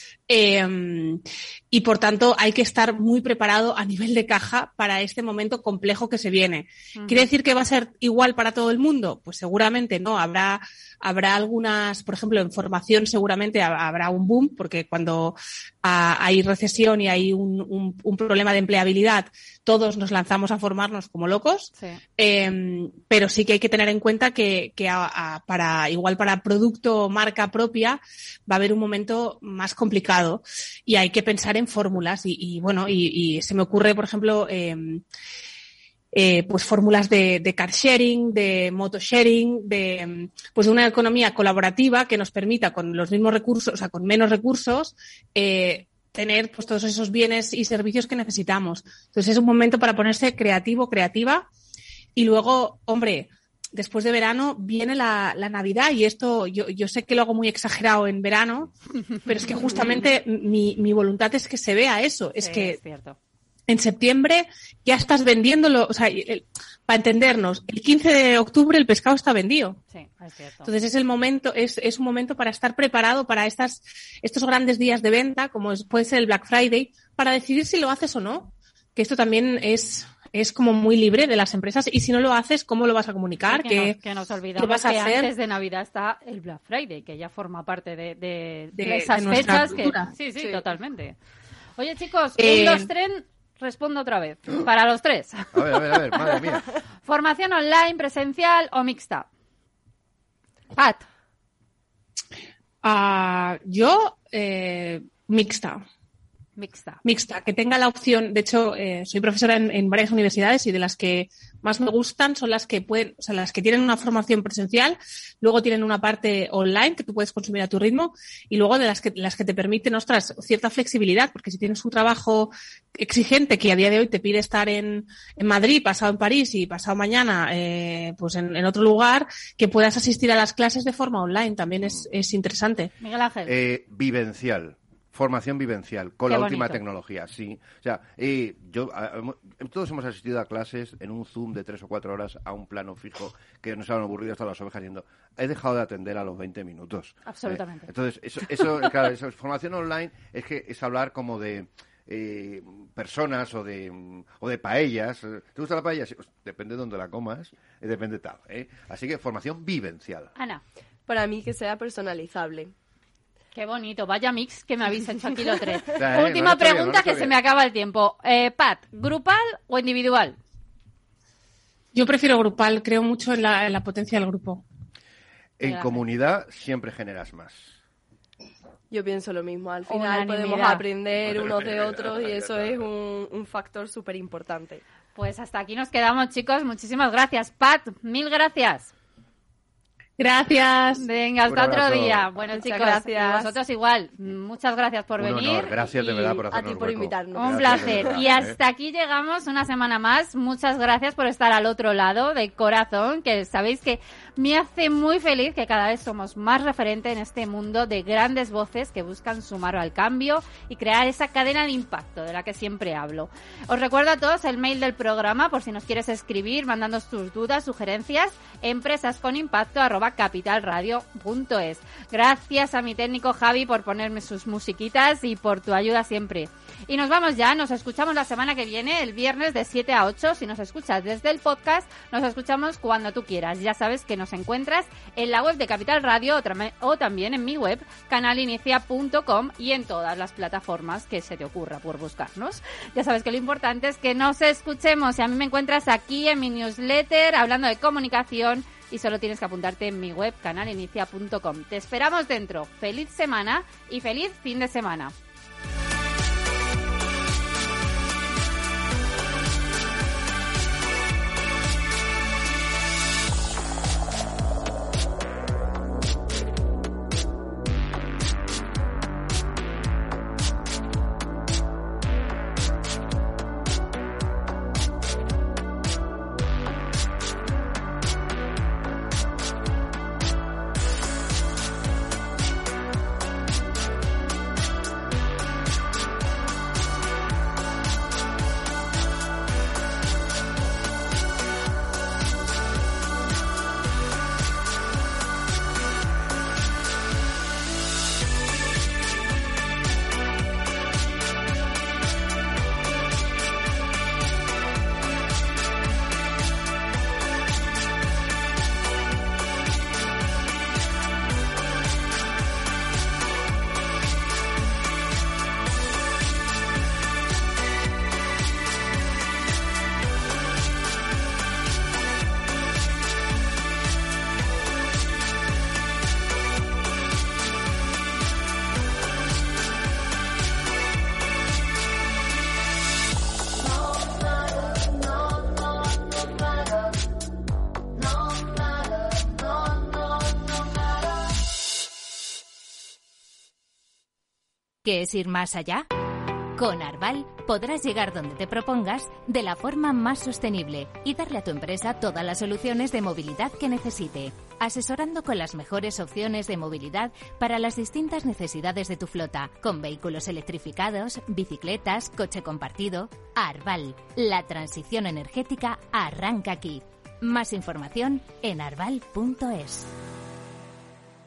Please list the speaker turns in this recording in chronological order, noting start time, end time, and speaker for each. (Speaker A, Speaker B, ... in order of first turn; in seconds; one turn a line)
Speaker A: 0.3-35.0
Speaker B: 6.9-7.3
Speaker B: 21.8-22.0
Speaker A: 36.1-51.5
Speaker A: 52.1-58.7
Speaker A: 59.2-62.8
Speaker B: 59.3-60.0
Speaker B: 62.4-63.2
Speaker A: 63.7-69.8
Speaker B: 69.9-70.7
Speaker A: 70.6-84.0
Speaker B: 83.5-91.1
Speaker A: 84.5-85.3
Speaker A: 88.7-90.1
Speaker B: 91.8-96.3
Speaker A: 92.4-92.9
Speaker C: 95.5-96.6
Speaker B: 97.0-99.3
Speaker B: 100.8-101.0
Speaker A: 102.8-105.8
Speaker B: 106.5-107.0
Speaker A: 107.0-132.9
Speaker B: 133.0-133.5
Speaker C: 133.4-160.3
Speaker B: 136.3-136.8
Speaker B: 147.3-147.9
Speaker B: 160.3-160.6
Speaker D: 161.1-162.7
Speaker B: 163.5-170.4
Speaker C: 165.9-167.4
Speaker A: 171.9-174.6
Speaker C: 175.6-177.8
Speaker B: 175.6-176.0
Speaker D: 178.9-184.8
Speaker B: 179.9-180.8
Speaker C: 181.2-182.8
Speaker B: 185.1-188.9
Speaker A: 190.2-191.0
Speaker B: 191.0-196.4
Speaker C: 191.5-192.3
Speaker D: 192.5-193.6
Speaker C: 195.2-198.6
Speaker D: 196.5-198.3
Speaker B: 197.3-255.1
Speaker E: 344.8-345.8
Speaker E: 346.5-369.9